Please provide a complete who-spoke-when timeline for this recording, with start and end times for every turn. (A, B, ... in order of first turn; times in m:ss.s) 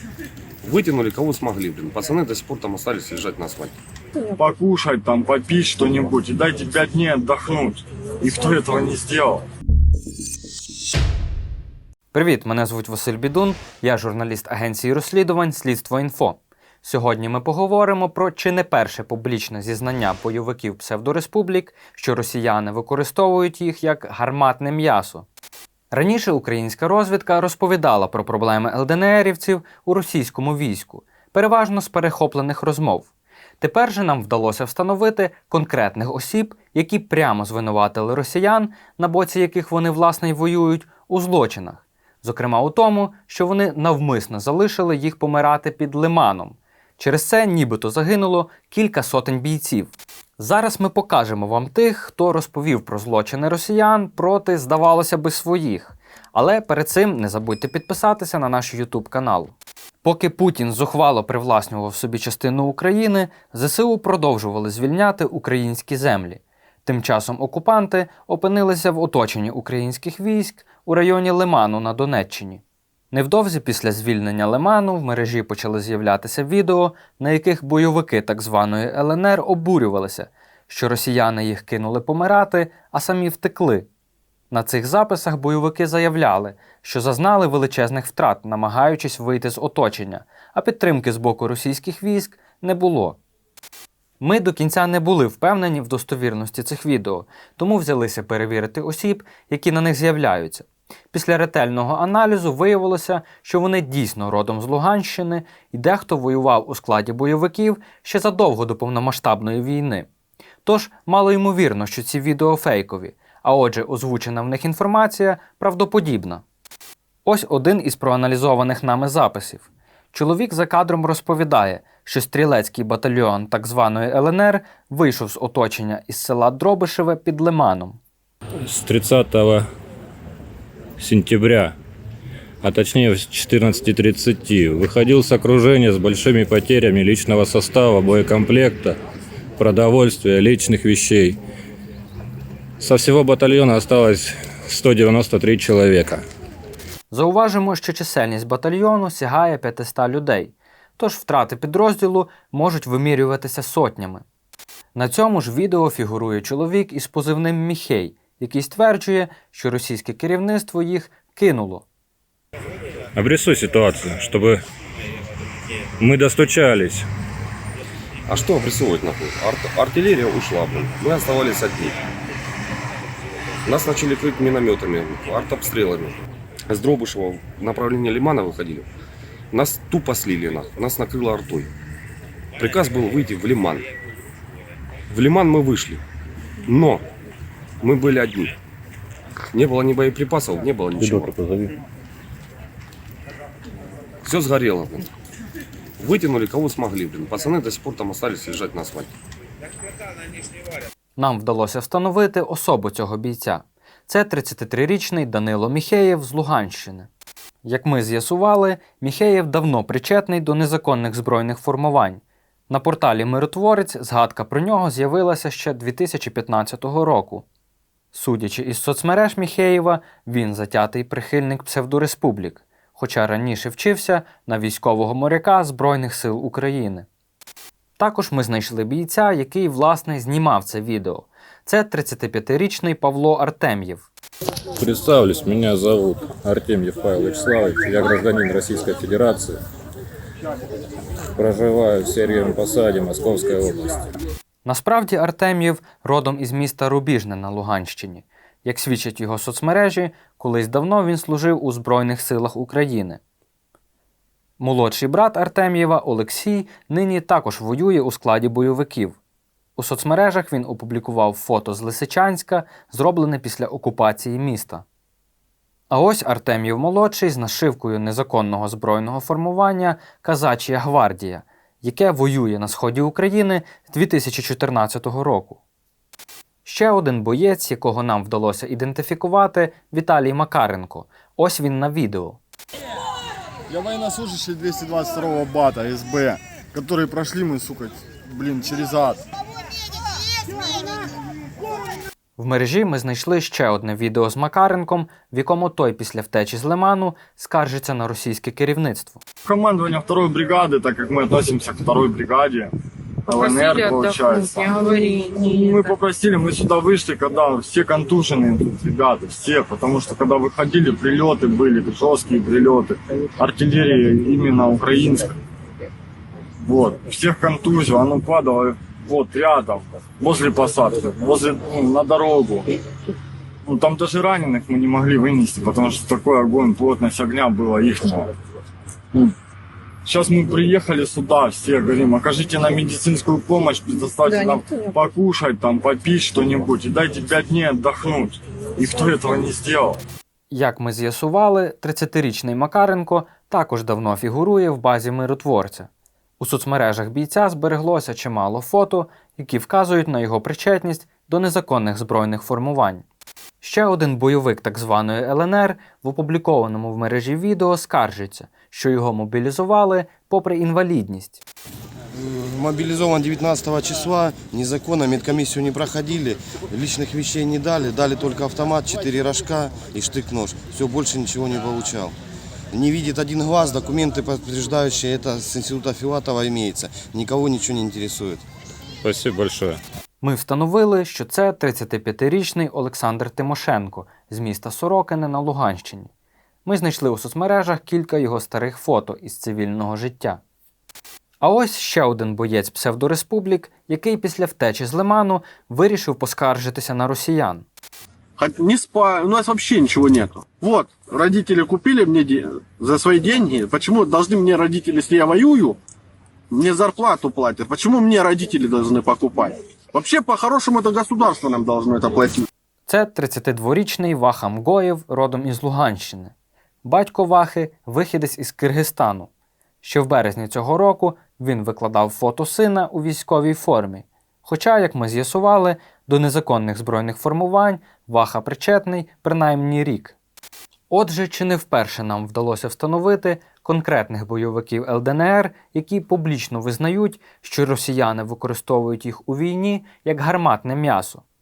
0:00.6-0:03.7 A
0:04.4-0:09.4 B
0:12.1-0:25.3 C
0:25.9-1:23.9 C
1:24.5-1:33.2 C
1:34.2-1:50.1 C
1:50.6-1:56.4 C
1:57.2-2:08.0 C
2:08.6-2:09.6 D
2:11.0-2:11.7 D
2:12.6-2:19.0 D
2:19.6-2:21.4 D
2:22.8-2:26.2 D
2:27.1-2:34.2 C
2:34.9-2:41.8 C
2:43.1-2:44.6 D
2:46.0-2:47.0 D
2:48.3-2:52.0 A
2:53.7-2:56.2 A
2:56.7-2:58.9 A
2:59.5-3:01.7 A
3:02.6-3:03.8 A
3:05.1-3:06.0 A
3:06.7-3:07.0 A
3:07.8-3:08.5 A
3:09.5-3:11.3 A
3:11.0-3:11.7 D
3:14.2-3:15.1 A
3:16.0-3:19.1 A
3:21.2-3:27.1 C
3:27.6-3:37.4 C
3:38.1-3:47.1 C
3:48.0-3:54.1 C
3:54.8-3:59.6 D
4:01.4-4:04.0 D
4:04.6-4:13.2 C
4:14.6-4:19.2 C
4:19.8-4:24.8 C
4:25.9-4:35.6 C
4:36.6-4:42.4 C
4:43.7-4:49.2 E
4:44.8-4:45.1 B
4:52.4-4:59.2 C
4:59.5-5:02.7 B
5:03.3-5:06.0 F
5:03.3-5:04.5 E
5:03.4-5:04.7 B
5:05.4-5:15.3 B
5:16.6-5:22.6 B
5:23.6-5:28.3 B
5:30.0-5:39.9 B
5:34.2-5:35.1 F
5:40.5-5:53.0 C
5:53.6-6:01.4 C
6:02.1-6:12.1 G
6:12.7-6:18.4 G
6:19.0-6:19.8 D
6:20.2-6:26.1 C
6:26.6-6:30.4 C
6:31.4-6:37.6 C
6:38.4-6:45.8 H
6:46.5-6:52.4 H
6:52.8-6:56.3 C
6:56.8-6:59.3 C
6:59.8-7:10.2 C
7:10.9-7:21.2 C